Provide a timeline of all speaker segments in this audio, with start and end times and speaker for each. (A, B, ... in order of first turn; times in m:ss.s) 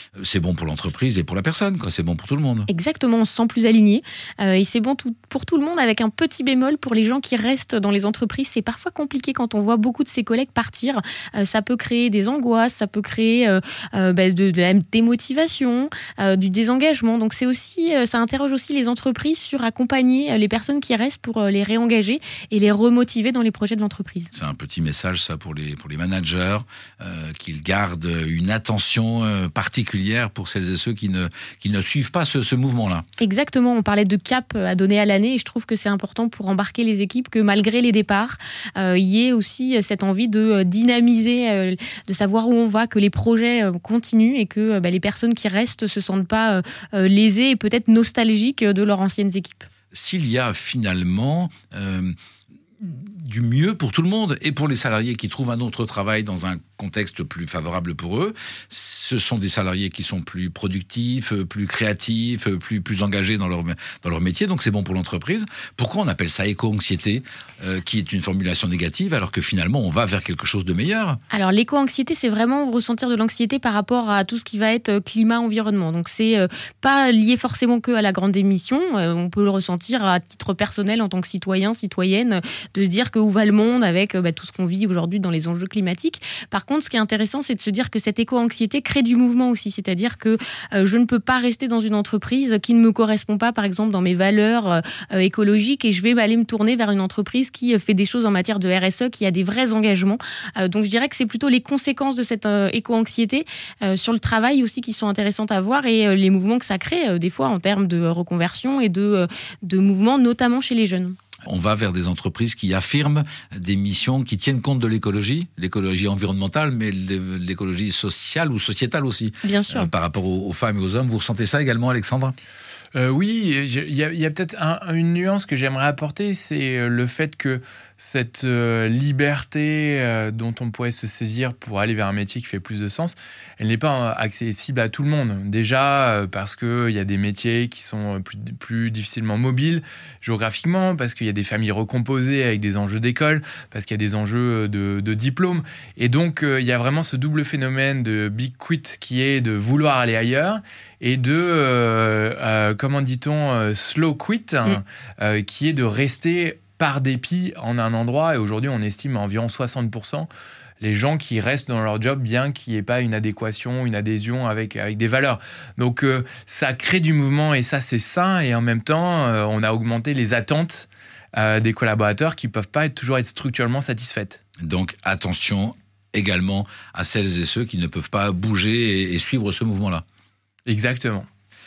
0:00.2-0:02.7 A
0:02.7-0:24.3 B
0:24.4-0:33.0 A
0:33.2-0:49.7 B
0:49.9-0:52.1 A
0:52.8-1:11.2 A
1:11.3-1:51.2 B
1:51.5-2:02.4 A
1:59.4-1:59.9 B
2:03.0-2:40.3 C
2:40.8-2:54.4 C
2:54.6-3:00.0 A
3:00.7-3:01.3 C